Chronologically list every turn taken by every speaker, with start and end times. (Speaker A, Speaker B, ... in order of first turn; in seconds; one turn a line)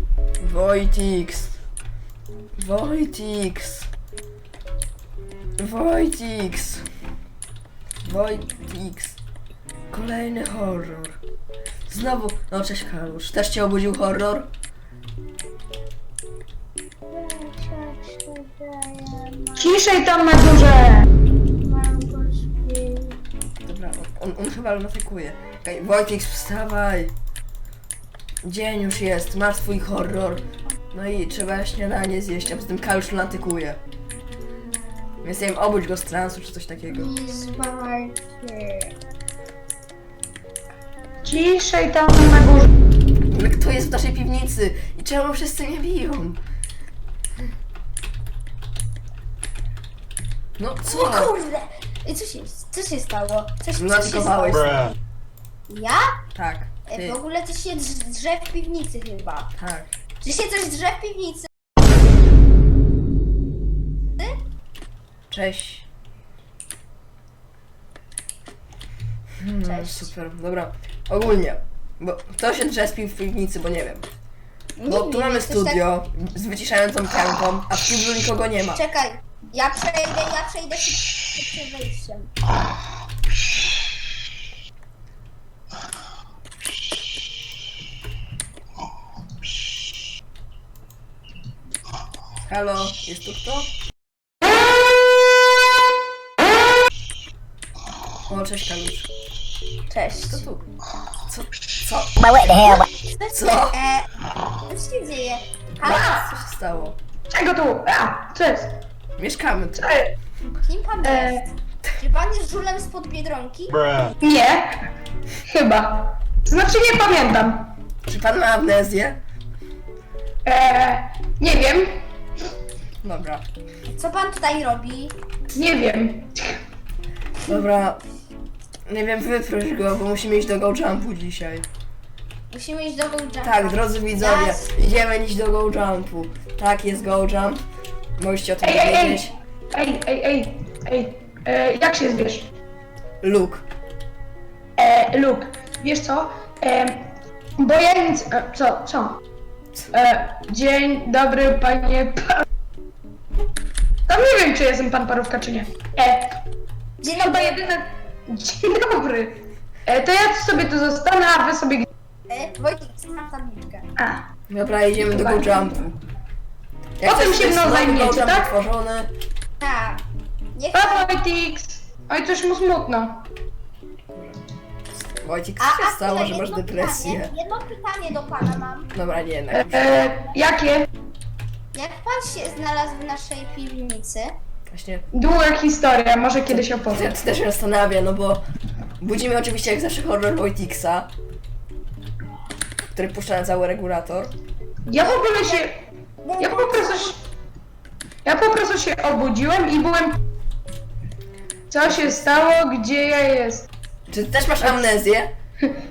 Speaker A: 0.4-1.6
Speaker A: 2.6-3.9
Speaker A: 5.6-6.9
Speaker A: 8.1-9.2
Speaker A: 9.9-11.2
Speaker A: 11.9-14.5
Speaker B: 17.1-19.8
Speaker C: 19.6-21.1
Speaker B: 21.6-23.2
Speaker A: 23.6-27.1
Speaker A: 28.4-33.8
Speaker A: 35.2-37.1
Speaker B: 36.9-38.9
Speaker C: 41.2-42.7
Speaker A: 43.3-46.4
Speaker A: 50.6-51.4
Speaker B: 50.9-54.7
Speaker A: 53.8-54.9
Speaker B: 55.7-56.2
Speaker A: 56.4-57.2
Speaker B: 56.9-59.5
Speaker A: 59.6-59.9
Speaker B: 60.2-61.5
Speaker A: 65.3-65.9
Speaker A: 69.4-74.1
Speaker B: 69.7-70.1
Speaker B: 74.8-75.8
Speaker A: 74.9-78.8
Speaker B: 78.7-82.3
Speaker A: 92.4-93.7
Speaker A: 98.3-99.1
Speaker B: 99.9-100.5
Speaker A: 100.3-100.7
Speaker A: 101.3-102.8
Speaker A: 103.3-103.8
Speaker B: 103.5-104.1
Speaker B: 104.6-106.3
Speaker A: 105.8-107.0
Speaker C: 107.3-108.8
Speaker A: 109.2-109.9
Speaker C: 109.8-110.1
Speaker B: 110.6-111.5
Speaker C: 111.0-111.4
Speaker B: 112.0-114.1
Speaker C: 114.2-114.8
Speaker C: 115.5-117.7
Speaker A: 118.1-119.2
Speaker C: 120.5-122.0
Speaker A: 123.0-123.4
Speaker B: 123.9-125.2
Speaker C: 125.5-126.6
Speaker A: 127.5-128.0
Speaker A: 128.9-131.7
Speaker B: 132.5-134.7
Speaker A: 133.4-137.6
Speaker A: 138.2-139.3
Speaker C: 138.6-142.5
Speaker A: 143.2-143.7
Speaker C: 144.8-149.2
Speaker C: 149.9-152.4
Speaker C: 154.1-156.4
Speaker B: 157.0-157.6
Speaker C: 157.1-161.9
Speaker B: 162.3-163.9
Speaker C: 164.0-164.3
Speaker A: 164.5-166.0
Speaker C: 165.0-165.7
Speaker A: 167.0-169.1
Speaker C: 167.0-168.5
Speaker B: 169.6-171.1
Speaker C: 170.7-173.2
Speaker A: 174.1-174.4
Speaker A: 174.9-177.3
Speaker B: 175.6-178.9
Speaker A: 178.9-180.1
Speaker C: 179.5-180.9
Speaker B: 181.7-184.4
Speaker A: 184.7-185.1
Speaker C: 185.1-187.1
Speaker A: 186.5-188.4
Speaker A: 189.0-191.1
Speaker A: 192.9-194.3
Speaker C: 194.9-195.8
Speaker B: 196.2-197.1
Speaker C: 196.4-197.2
Speaker C: 198.2-200.2
Speaker C: 201.7-203.7
Speaker A: 201.9-202.2
Speaker A: 204.1-205.3